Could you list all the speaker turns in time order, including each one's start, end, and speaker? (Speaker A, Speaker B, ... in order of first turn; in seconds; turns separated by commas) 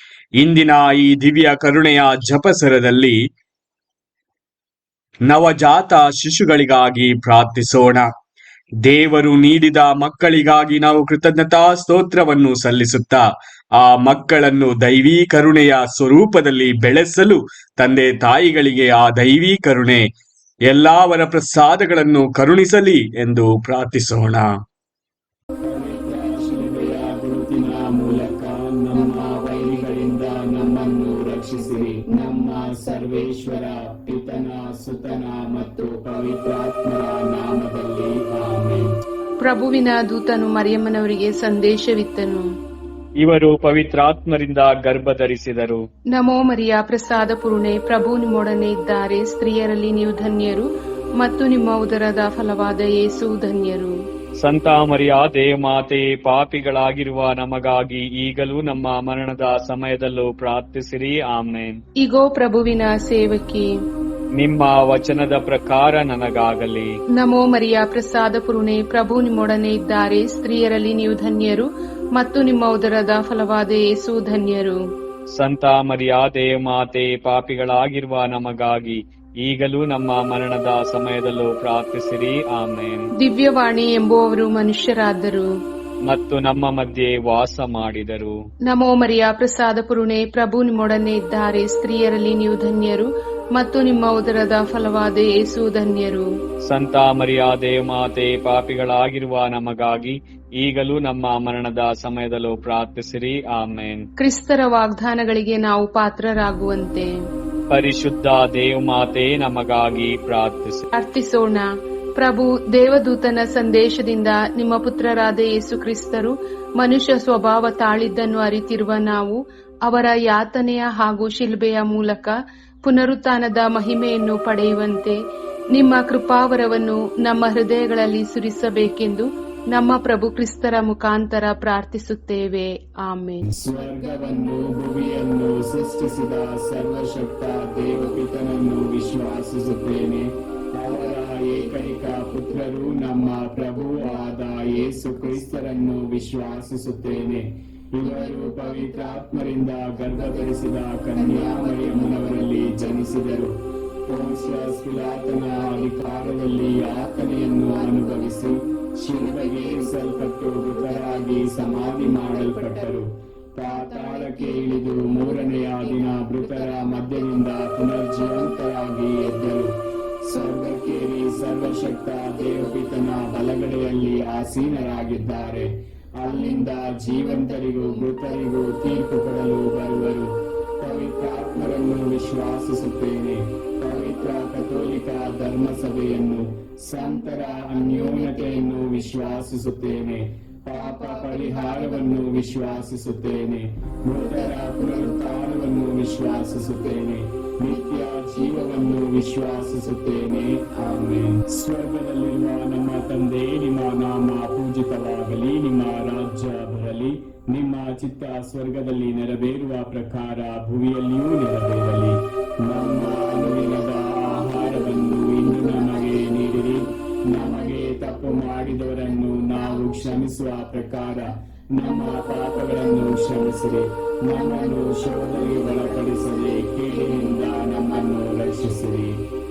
Speaker A: 0.4-3.2, Speaker A: 5.3-8.1, Speaker A: 8.8-13.3, Speaker A: 13.8-20.1, Speaker A: 20.7-24.6, Speaker B: 25.6-38.9, Speaker C: 25.8-28.1, Speaker C: 28.9-33.9, Speaker C: 35.6-36.0, Speaker C: 39.4-42.5, Speaker A: 43.2-45.9, Speaker C: 46.1-54.0, Speaker A: 54.4-61.8, Speaker C: 62.0-63.7, Speaker A: 64.4-67.0, Speaker C: 67.2-74.8, Speaker A: 75.3-83.1, Speaker C: 83.2-85.5, Speaker A: 86.1-88.4, Speaker C: 88.7-96.3, Speaker A: 96.7-104.1, Speaker C: 104.2-107.1, Speaker A: 107.7-110.8, Speaker C: 111.0-111.7, Speaker C: 112.2-125.2, Speaker C: 125.7-136.2, Speaker B: 133.5-153.6, Speaker C: 142.5-145.9, Speaker C: 148.1-149.4, Speaker C: 150.2-150.5, Speaker C: 151.2-153.1, Speaker B: 154.1-169.7, Speaker C: 154.2-158.5, Speaker C: 159.1-163.0, Speaker C: 163.7-168.6, Speaker B: 170.3-229.2, Speaker C: 170.3-171.1, Speaker C: 172.3-173.3, Speaker C: 176.3-178.3, Speaker C: 184.2-184.7, Speaker C: 187.0-189.0, Speaker C: 190.8-192.3, Speaker C: 194.2-195.8, Speaker C: 197.7-199.0, Speaker C: 213.0-213.8, Speaker C: 214.4-216.6, Speaker C: 217.7-218.6, Speaker C: 219.6-220.2, Speaker C: 221.9-223.4, Speaker C: 224.3-228.1